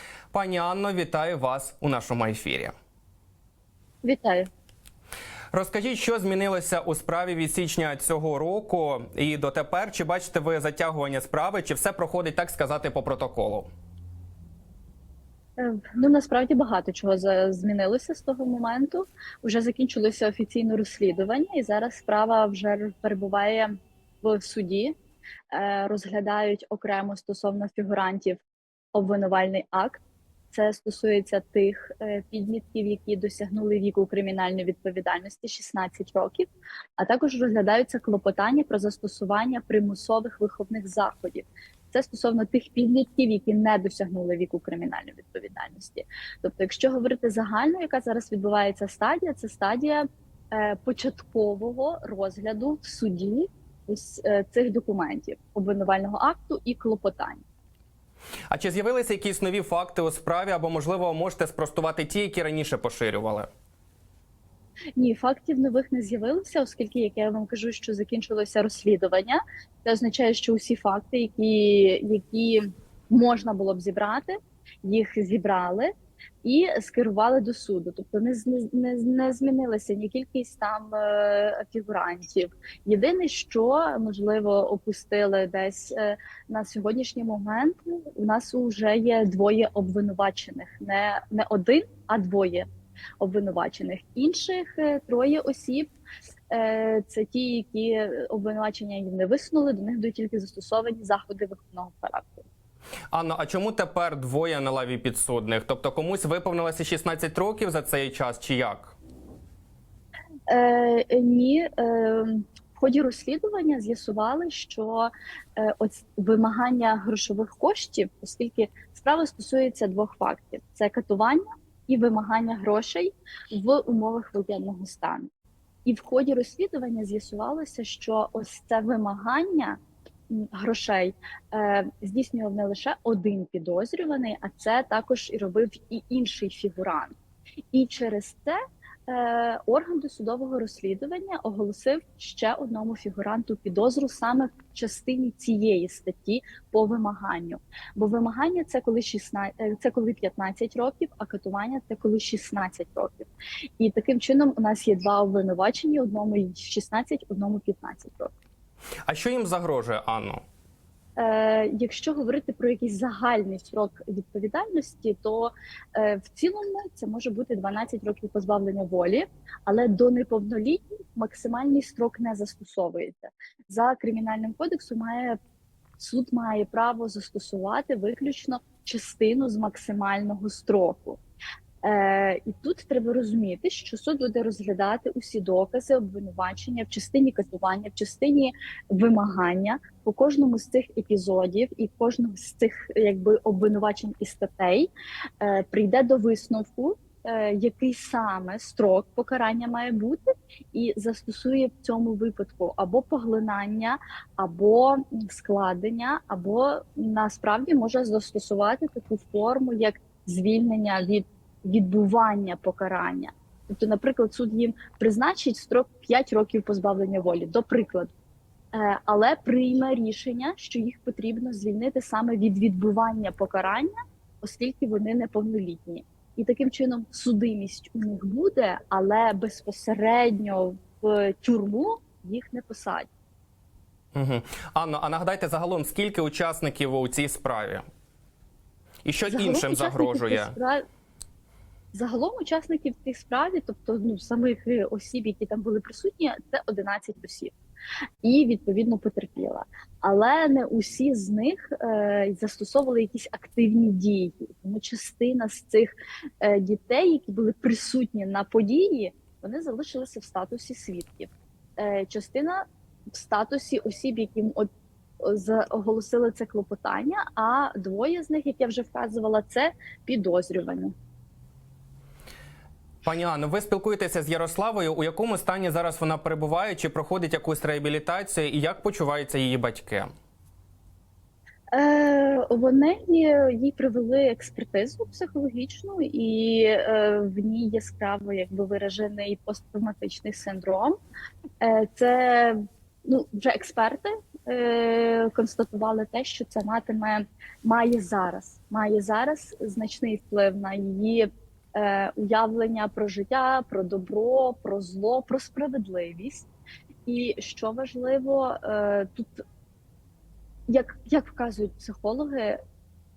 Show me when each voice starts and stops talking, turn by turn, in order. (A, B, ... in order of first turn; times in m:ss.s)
0:00.3-0:02.7 A
0:04.0-0:04.5 B
0:05.5-0:13.7 A
0:15.6-0:24.9 B
0:25.5-0:28.4 B
0:28.9-0:57.4 B
0:58.5-1:03.5 A
1:05.0-1:15.9 B
1:16.4-1:32.7 B
1:33.2-1:35.9 B
1:36.5-1:42.4 B
1:43.1-1:49.0 A
1:50.5-2:05.3 B
2:05.8-2:17.1 B
2:17.7-2:18.6 B
2:19.1-2:38.3 B
2:39.1-2:40.4 A
2:41.2-2:55.4 B
2:56.0-3:01.2 B
3:01.8-3:38.1 B
3:38.7-3:53.1 B
3:54.1-3:57.8 A
3:59.0-4:00.6 A
3:59.3-4:00.8 B
4:01.9-4:07.5 B
4:08.2-4:24.7 B
4:25.2-4:30.9 B
4:33.0-4:40.1 A
4:41.7-4:51.0 B
4:51.6-5:06.5 B
5:07.0-5:09.4 B
5:10.7-5:12.6 B